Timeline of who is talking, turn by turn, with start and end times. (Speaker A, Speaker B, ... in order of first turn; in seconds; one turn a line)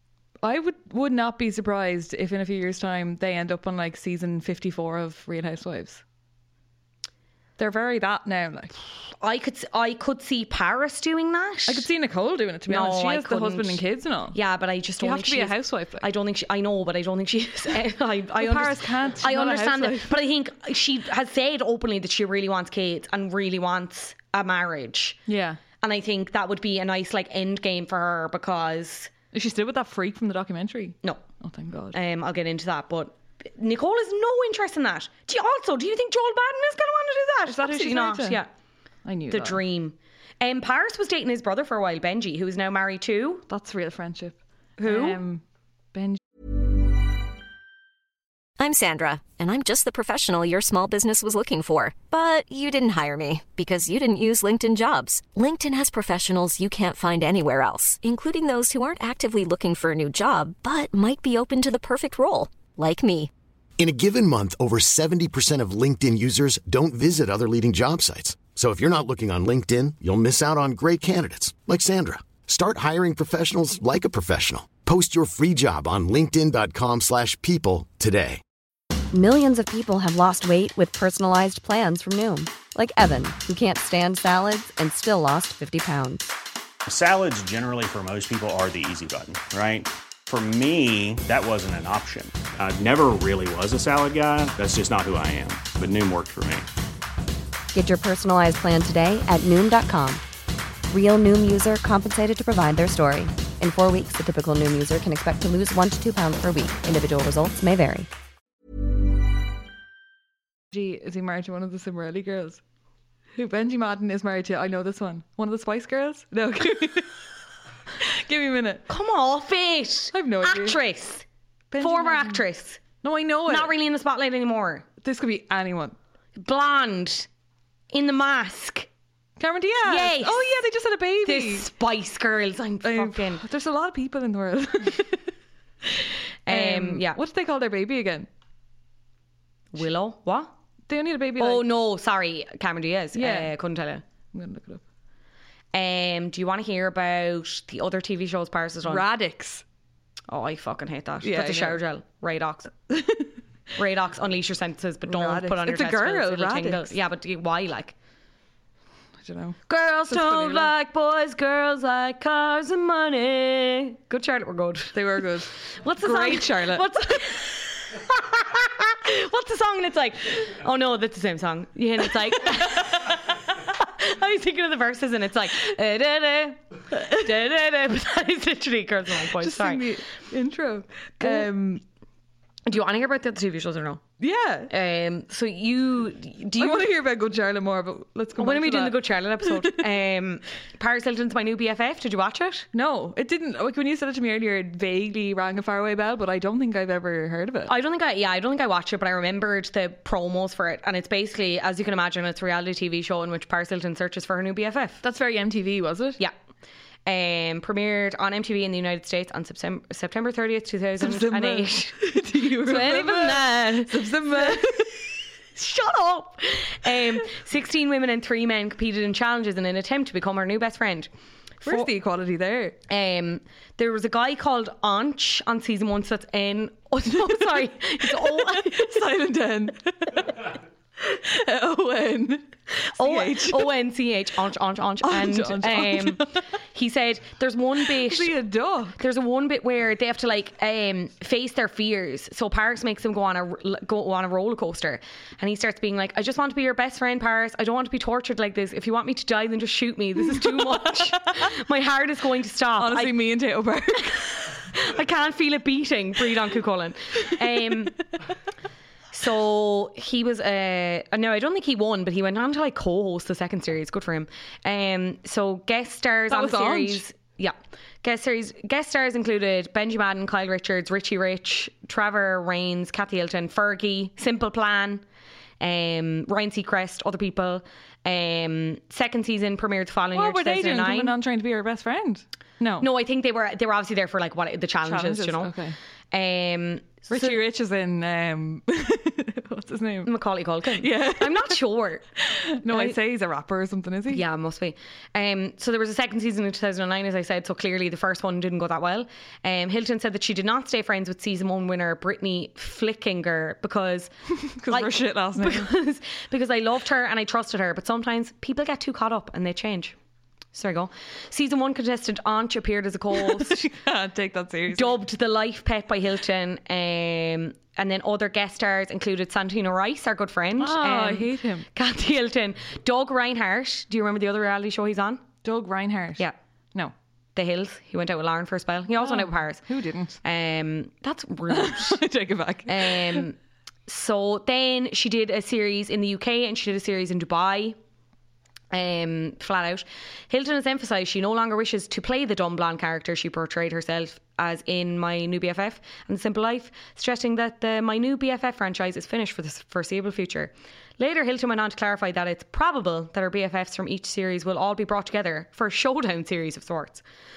Speaker A: 0.4-6.0
Speaker A: 7.6-8.7
Speaker B: 9.2-11.9
Speaker A: 11.7-14.4
Speaker B: 12.7-13.8
Speaker B: 14.3-25.2
Speaker A: 15.0-16.1
Speaker A: 18.4-20.1
Speaker A: 25.3-25.6
Speaker B: 25.8-29.1
Speaker A: 29.3-32.0
Speaker B: 31.9-38.5
Speaker A: 37.5-38.4
Speaker A: 39.1-39.6
Speaker B: 39.3-43.5
Speaker A: 43.5-45.4
Speaker B: 44.8-45.2
Speaker A: 45.9-46.2
Speaker C: 48.6-63.3
Speaker D: 63.8-78.4
Speaker E: 79.1-86.3
Speaker F: 86.9-96.7
Speaker E: 97.7-100.2
Speaker E: 100.9-108.1
Speaker A: 110.7-112.6
Speaker A: 113.4-117.1
Speaker A: 118.0-118.8
Speaker B: 118.9-121.2
Speaker A: 120.1-120.8
Speaker A: 121.7-122.4
Speaker B: 121.8-122.8
Speaker A: 123.0-123.7
Speaker B: 123.5-124.9
Speaker A: 125.0-126.0
Speaker B: 126.4-127.3
Speaker B: 127.9-128.9
Speaker A: 129.4-131.7
Speaker B: 129.9-130.5
Speaker B: 131.2-133.4
Speaker A: 132.8-135.2
Speaker A: 135.9-138.3
Speaker B: 136.5-137.2
Speaker B: 139.7-140.5
Speaker A: 140.9-141.7
Speaker B: 141.4-144.0
Speaker A: 143.2-143.5
Speaker A: 144.3-144.8
Speaker B: 145.7-149.1
Speaker A: 148.8-149.6
Speaker B: 150.3-152.7
Speaker A: 151.2-151.8
Speaker A: 152.9-153.3
Speaker B: 153.8-157.9
Speaker A: 155.1-156.9
Speaker A: 159.2-160.7
Speaker B: 159.7-165.0
Speaker A: 164.9-166.9
Speaker B: 165.5-179.9
Speaker A: 179.4-181.8
Speaker B: 181.2-181.5
Speaker B: 182.7-184.0
Speaker A: 184.2-184.7
Speaker B: 184.7-186.9
Speaker A: 186.6-189.8
Speaker B: 188.4-192.7
Speaker A: 192.7-197.7
Speaker B: 197.7-205.0
Speaker A: 205.0-206.2
Speaker B: 207.1-215.0
Speaker A: 211.0-214.9
Speaker B: 215.6-221.1
Speaker A: 221.6-222.8
Speaker B: 222.9-229.0
Speaker A: 228.0-230.4
Speaker A: 231.0-233.7
Speaker B: 233.0-238.3
Speaker A: 235.0-236.4
Speaker A: 237.9-239.0
Speaker B: 239.0-253.2
Speaker A: 250.3-250.9
Speaker A: 252.8-254.3
Speaker B: 254.6-258.0
Speaker B: 259.1-275.0
Speaker A: 266.3-267.0
Speaker B: 275.6-281.1
Speaker A: 280.1-282.9
Speaker B: 282.8-285.5
Speaker A: 284.9-285.8
Speaker B: 286.1-287.4
Speaker A: 287.1-290.1
Speaker B: 290.1-292.0
Speaker A: 290.8-291.6
Speaker A: 292.2-294.2
Speaker B: 292.7-293.0
Speaker B: 294.1-304.1
Speaker A: 304.4-305.7
Speaker B: 304.7-309.9
Speaker B: 310.5-313.6
Speaker A: 313.1-315.0
Speaker B: 314.7-325.2
Speaker A: 320.6-321.7
Speaker A: 325.4-326.9
Speaker B: 327.4-329.6
Speaker A: 329.0-330.2
Speaker B: 330.2-332.0
Speaker A: 331.5-333.2
Speaker B: 332.7-333.4
Speaker B: 333.9-337.8
Speaker B: 338.7-357.0